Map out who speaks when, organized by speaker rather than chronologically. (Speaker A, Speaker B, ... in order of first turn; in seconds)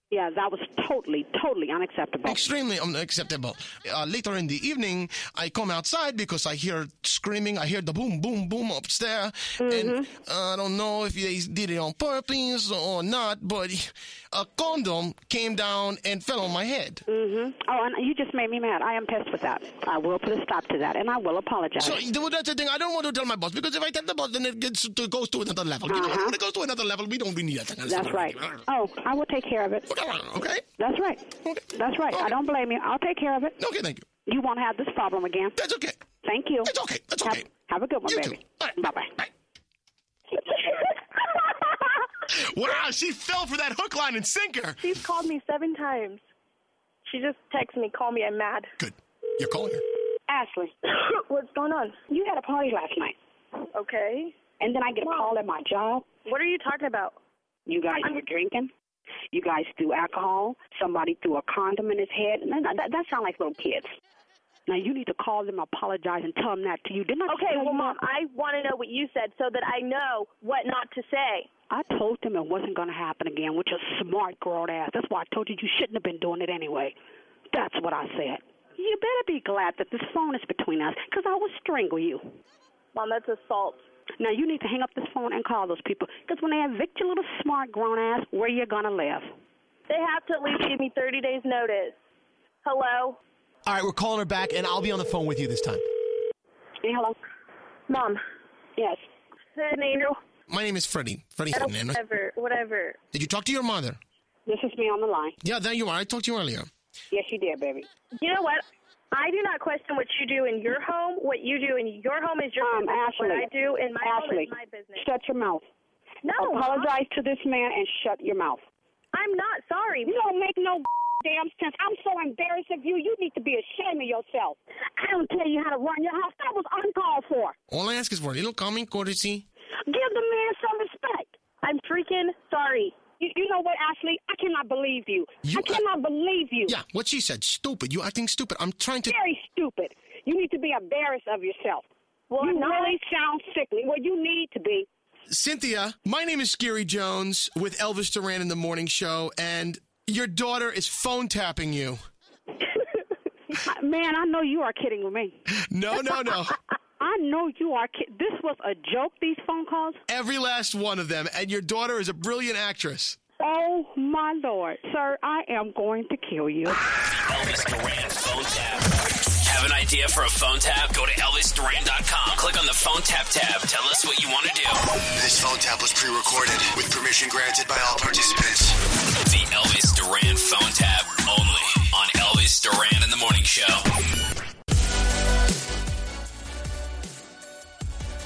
Speaker A: 0.1-2.5, 9.6-10.1, 17.1-22.0, 25.9-26.4, 27.9-29.9, 30.8-33.6, 34.3-35.5, 36.2-39.1, 50.3-50.7, 52.1-53.1, 54.6-56.1, 57.7-58.7, 59.3-63.9, 64.7-68.0, 71.7-77.0, 77.5-82.2, 84.2-89.3, 96.8-97.2, 98.8-99.0, 104.5-105.4, 107.1-107.9, 112.6-113.5, 114.0-115.7, 116.4-118.6, 120.1-127.5, 129.9-131.3, 133.2-135.1, 135.8-136.5, 139.1-141.8, 142.5-144.8, 153.5-155.4, 157.0-160.0, 163.4-166.8
Speaker B: 2.2-17.0, 21.8-28.6, 29.9-30.6, 32.1-32.4, 33.6-34.0, 35.6-36.0, 36.6-37.5, 38.1-38.7, 42.3-44.8, 48.8-49.8, 100.5-102.0, 103.1-104.0, 105.4-106.7, 127.7-129.5, 135.4-135.8, 136.6-139.2, 145.3-152.0, 155.7-156.6, 160.1-163.2
Speaker C: 44.8-46.2, 47.1-48.7, 51.2-52.0, 53.7-54.4, 56.2-57.2, 67.3-71.5, 82.9-83.8, 89.9-92.0, 92.6-93.2, 97.9-98.2, 99.6-100.2, 101.5-103.0, 108.2-115.1, 116.2-116.9, 119.1-120.2, 131.6-132.9, 142.3-143.0
Speaker D: 93.7-95.8
Speaker E: 167.0-174.9, 179.2-183.9
Speaker F: 175.2-178.8